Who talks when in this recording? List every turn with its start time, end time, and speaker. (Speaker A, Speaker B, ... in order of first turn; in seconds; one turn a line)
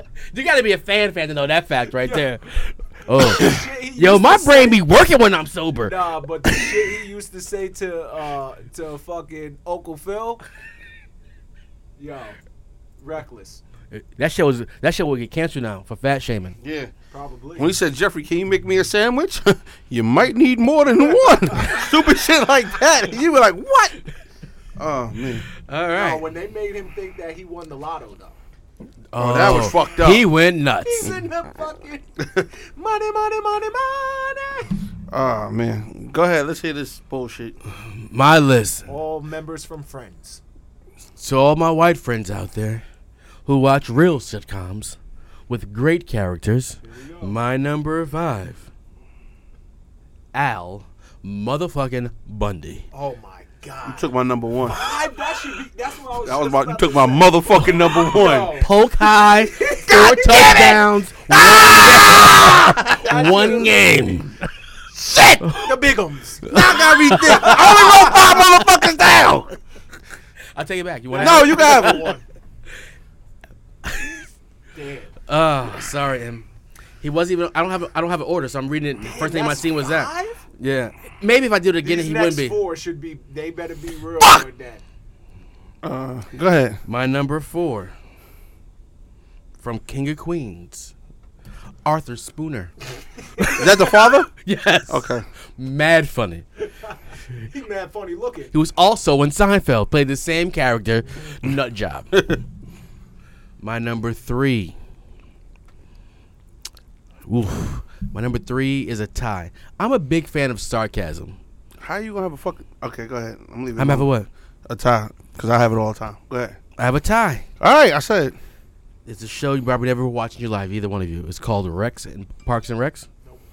Speaker A: 0.3-5.9
Speaker B: 2.0-2.3
Speaker B: 3.1-4.8
Speaker B: 5.8-10.4
Speaker B: 12.0-12.4
Speaker B: 13.0-13.6
Speaker A: 13.9-16.6
Speaker C: 16.6-16.9
Speaker B: 17.1-17.7
Speaker C: 17.6-23.9
Speaker B: 21.0-21.9
Speaker C: 24.8-25.5
Speaker A: 25.7-26.2
Speaker B: 25.9-28.4
Speaker A: 29.1-31.1
Speaker C: 29.1-30.3
Speaker B: 30.8-34.8
Speaker C: 35.1-37.5
Speaker A: 37.8-38.9
Speaker B: 38.9-40.4
Speaker A: 41.2-42.8
Speaker A: 43.5-45.0
Speaker A: 45.5-48.7
Speaker B: 46.8-47.4
Speaker A: 50.3-52.9
Speaker B: 52.9-60.8
Speaker C: 53.8-54.8
Speaker C: 56.2-58.6
Speaker A: 58.5-64.5
Speaker C: 59.9-63.0
Speaker B: 62.1-63.8
Speaker C: 65.0-65.5
Speaker B: 65.5-68.4
Speaker A: 66.5-67.6
Speaker C: 66.5-69.5
Speaker A: 70.5-72.0
Speaker B: 71.1-72.2
Speaker C: 71.2-72.2
Speaker A: 73.8-74.1
Speaker B: 74.7-75.2
Speaker A: 75.3-76.5
Speaker A: 77.0-82.6
Speaker B: 79.0-80.4
Speaker B: 81.8-84.8
Speaker C: 85.8-86.8
Speaker A: 86.8-87.9
Speaker A: 89.6-90.9
Speaker A: 91.8-92.7
Speaker B: 93.4-93.7
Speaker A: 93.4-95.0
Speaker C: 93.5-94.3
Speaker C: 94.9-95.2
Speaker A: 95.6-96.4
Speaker B: 96.7-98.5
Speaker A: 98.5-102.1
Speaker A: 103.6-104.7
Speaker A: 107.2-111.4
Speaker C: 111.8-114.1
Speaker A: 113.8-114.3
Speaker C: 114.7-116.6
Speaker A: 116.8-117.5
Speaker C: 117.6-118.3
Speaker A: 119.0-123.1